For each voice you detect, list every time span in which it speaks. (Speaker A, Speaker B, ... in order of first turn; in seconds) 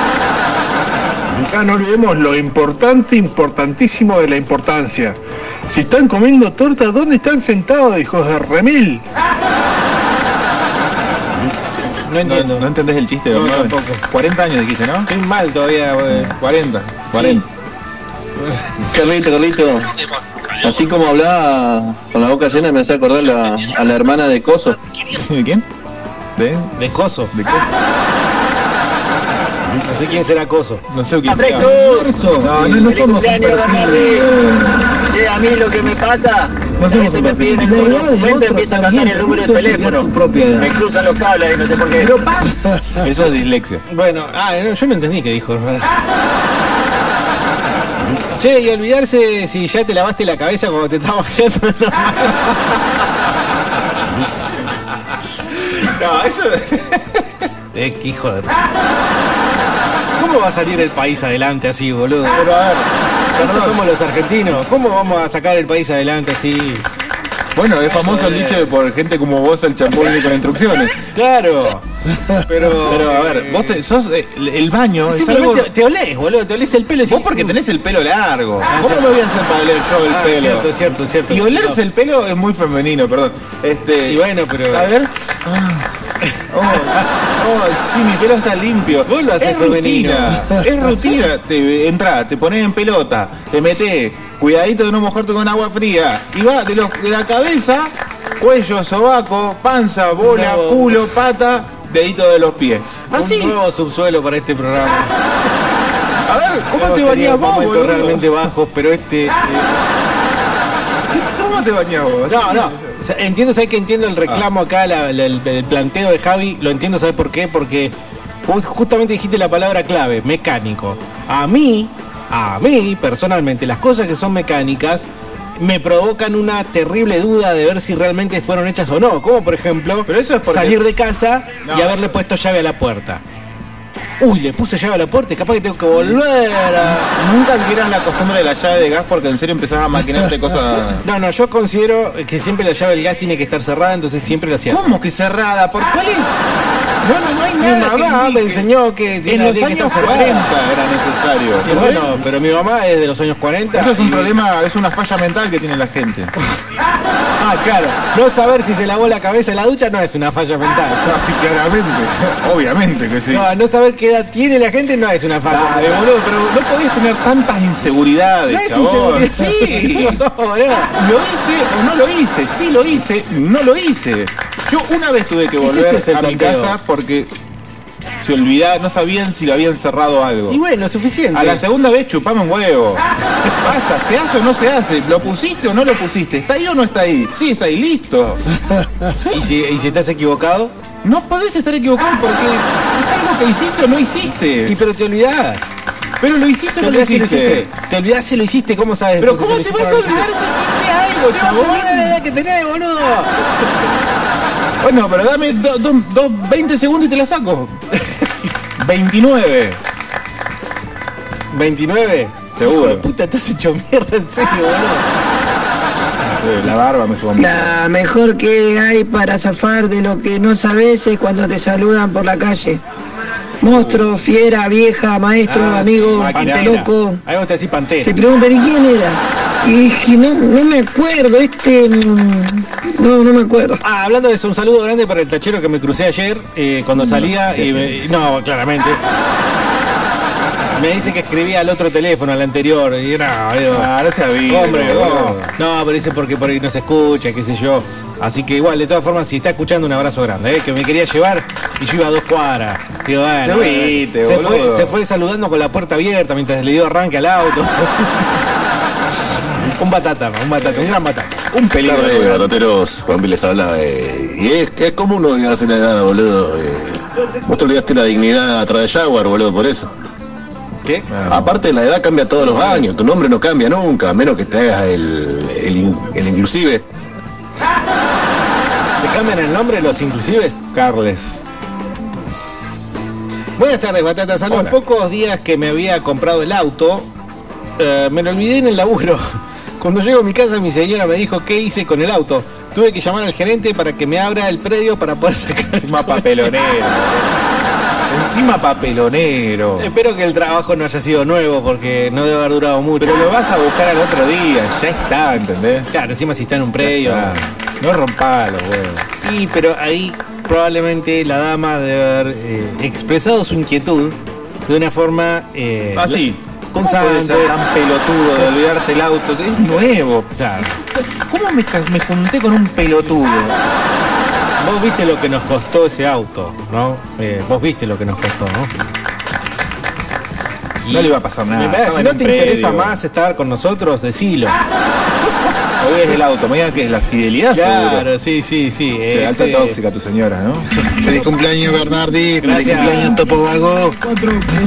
Speaker A: 1.5-9.0
Speaker B: 12.1-12.7, 13.3-14.0, 15.1-16.3, 17.1-17.4, 26.8-27.3, 29.8-30.8, 31.4-32.9, 37.5-40.7, 43.9-45.9, 48.4-52.8, 57.7-58.5, 60.2-62.5, 63.4-66.8, 67.9-68.7, 71.0-71.8, 72.5-73.8, 75.0-77.5, 78.7-79.1, 80.1-81.8, 84.1-84.9, 86.2-87.1, 89.0-90.5, 100.2-101.1, 103.1-105.1, 106.7-109.8, 112.3-117.9, 118.5-125.0, 125.6-133.2, 134.2-137.1, 141.0-144.9, 147.6-150.6, 151.6-154.3, 157.4-161.0, 163.3-166.1, 168.5-170.9, 175.6-176.8, 180.5-181.6, 189.3-190.7, 194.7-195.6, 196.8-200.3, 201.3-203.7, 208.0-208.3, 211.5-215.1, 225.4-228.1, 233.8-239.0, 240.7-243.9, 244.5-258.4, 259.8-261.4, 279.0-280.6, 283.6-287.1, 287.8-289.2, 289.8-296.5, 299.8-303.3, 305.9-307.4, 309.2-317.6, 320.4-320.7, 324.6-328.7, 330.8-334.6, 337.5-339.8, 342.4-343.1
Speaker C: 12.2-15.1, 16.1-17.4, 25.1-25.6, 26.4-26.7, 27.3-27.7, 30.9-34.7, 36.8-38.0, 42.1-43.8, 55.6-57.4, 62.3-63.8, 67.5-71.0, 72.7-75.7, 77.1-85.9, 86.5-103.6, 106.2-108.3, 111.1-113.0, 130.1-130.9, 131.6-132.2, 137.1-141.1, 144.7-146.4, 147.0-148.7, 149.2-152.2, 153.7-156.3, 161.0-163.5, 165.5-177.3, 178.2-180.6, 181.3-183.1, 183.6-188.4, 191.0-194.8, 196.2-197.7, 199.2-202.2, 204.8-207.8, 208.8-209.8, 212.5-213.1, 216.3-217.8, 223.6-224.0, 226.0-226.8, 236.9-238.0, 243.7-245.5, 253.4-255.0, 260.6-260.9, 261.5-262.5, 271.1-271.6, 272.4-272.9, 280.7-281.4, 284.5-284.8, 295.8-297.4, 298.1-299.9, 303.0-305.9, 306.8-309.1, 316.0-323.6, 330.9-333.0, 335.8-338.1, 339.1-340.6
Speaker D: 19.0-19.8, 20.6-24.7
Speaker E: 31.3-32.0, 32.8-34.2, 35.1-42.0
Speaker F: 217.4-222.8, 223.6-227.2, 228.0-233.8
Speaker G: 261.8-269.9, 271.3-276.8
Speaker H: 341.0-344.0